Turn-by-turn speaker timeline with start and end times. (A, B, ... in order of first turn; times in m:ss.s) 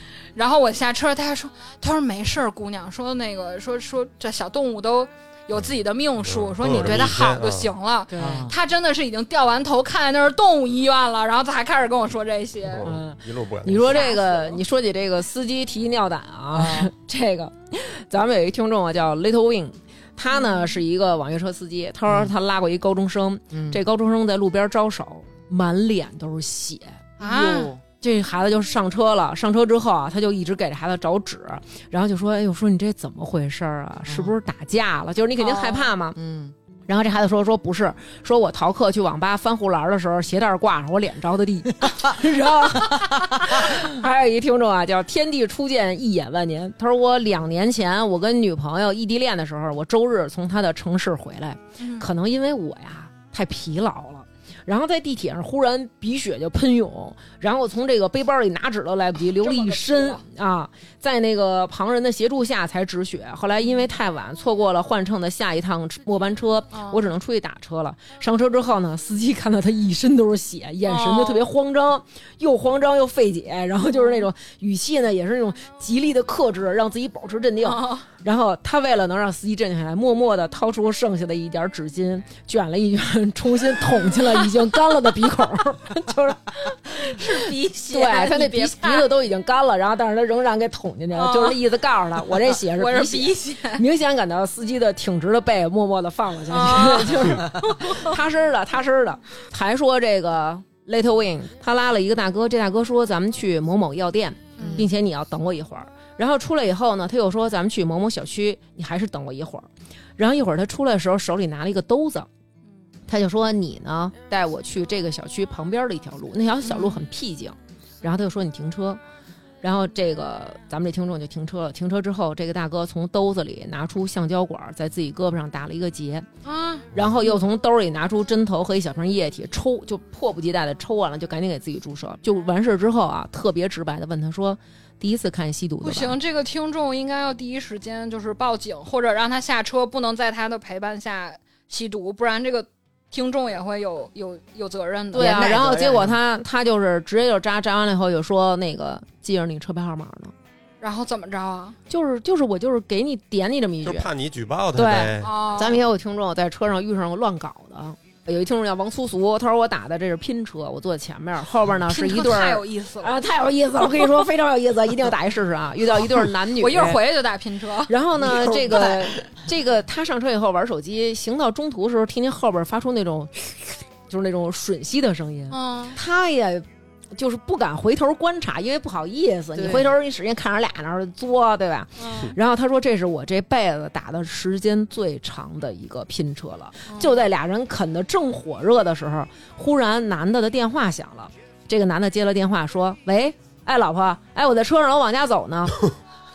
0:00.3-0:12.8 A
0:06.2-0:07.7 B
0:08.1-0:08.5 C
0:08.2-0:08.5 D
0:12.7-0:14.1 B
0:12.8-0:27.1 C
0:13.9-0:14.6 A
0:16.5-0:16.9 D
0:20.3-0:20.8 A
0:23.5-0:23.8 D
0:27.2-0:27.7 A
0:27.2-0:27.8 D
0:28.0-0:36.2 C
0:34.1-0:34.3 D
0:35.4-0:35.9 A
0:36.1-0:36.5 D
0:36.9-1:52.3 C
0:51.8-0:52.1 A
0:59.4-1:00.2 A
1:06.7-1:07.1 A
1:10.8-1:11.4 A
1:13.9-1:14.2 A
1:17.6-1:18.0 A
1:26.9-1:29.1 A
1:31.1-1:31.6 A
1:32.4-1:33.8 A
1:36.5-1:38.1 A
1:44.6-1:44.8 A
1:44.6-1:44.9 D
1:53.1-1:59.0 C
1:56.6-1:57.0 A
1:59.6-2:06.3 C
2:06.4-2:07.4 A
2:06.9-2:16.2 C
2:15.8-2:25.5 A
2:25.1-2:30.3 C
2:25.1-2:26.2 D
2:30.8-2:31.8 A
2:31.9-2:34.1 C
2:33.8-2:35.3 B
2:34.7-2:47.0 C
2:35.2-2:35.8 A
2:41.9-2:43.2 A
2:46.5-2:47.9 A
2:47.9-3:15.8 C
2:48.2-2:49.2 D
2:55.5-2:56.0 A
2:59.6-2:59.9 D
3:02.0-3:02.3 A
3:06.9-3:07.2 A